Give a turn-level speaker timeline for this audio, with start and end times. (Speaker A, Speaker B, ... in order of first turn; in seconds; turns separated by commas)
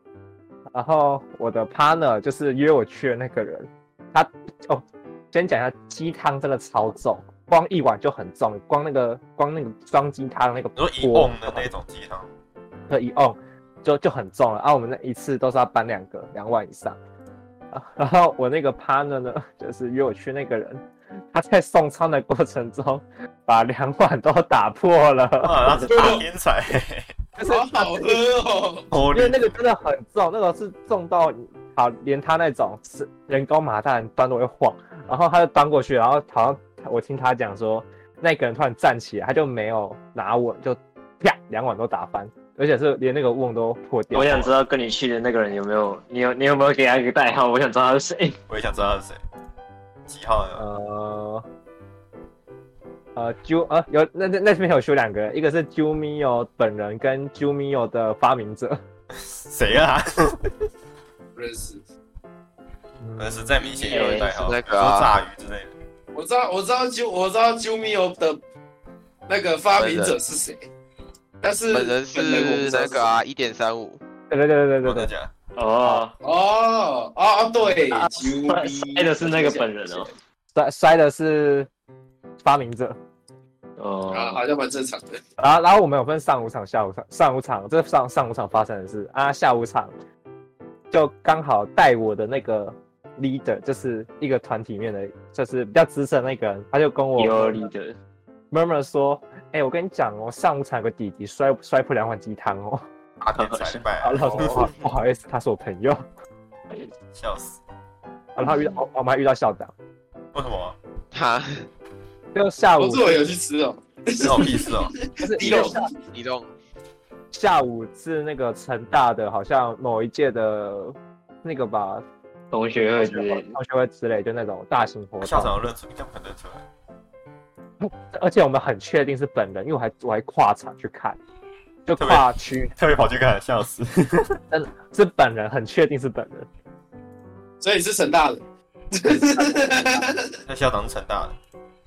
Speaker A: 0.7-11.7, Speaker B: 10.8-12.3, Speaker A: 12.9-17.0, Speaker A: 17.7-26.1, Speaker B: 25.4-27.1, Speaker C: 25.9-26.2, Speaker A: 27.4-28.2, Speaker C: 27.4-28.9, Speaker B: 28.9-29.6, Speaker A: 29.1-44.5, Speaker D: 44.1-48.4, Speaker B: 48.5-49.2, Speaker B: 50.1-50.6, Speaker A: 50.5-51.4, Speaker A: 53.1-58.8, Speaker B: 59.1-60.5, Speaker C: 61.3-61.8, Speaker A: 63.0-63.5, Speaker B: 63.2-65.7, Speaker E: 63.6-65.1, Speaker D: 63.9-64.3, Speaker C: 66.1-68.4, Speaker C: 69.3-70.7, Speaker E: 69.8-70.2, Speaker C: 71.4-73.2, Speaker E: 71.7-74.0, Speaker A: 74.3-75.1, Speaker B: 74.8-75.3, Speaker D: 75.5-76.1, Speaker C: 76.2-80.1, Speaker D: 77.9-80.1, Speaker A: 80.5-81.7, Speaker A: 82.4-83.0, Speaker D: 83.8-84.4, Speaker C: 84.1-85.2, Speaker A: 85.4-89.9, Speaker A: 90.9-97.7, Speaker D: 97.2-98.0, Speaker A: 98.5-102.8, Speaker B: 103.2-104.7, Speaker D: 103.3-103.8, Speaker A: 104.0-106.0, Speaker B: 107.1-107.6, Speaker A: 108.3-109.7, Speaker B: 110.3-110.8, Speaker E: 111.1-111.7, Speaker A: 112.3-113.3, Speaker C: 112.8-116.0, Speaker B: 114.2-114.9, Speaker A: 115.2-115.9, Speaker E: 116.1-116.5, Speaker A: 117.3-122.0, Speaker D: 122.5-123.5, Speaker A: 122.9-125.6, Speaker B: 125.2-126.6, Speaker A: 127.8-131.2, Speaker A: 131.8-132.7, Speaker B: 131.9-134.4, Speaker A: 134.5-136.5, Speaker C: 137.6-138.4, Speaker C: 138.9-140.4, Speaker A: 139.0-140.1, Speaker B: 140.5-141.4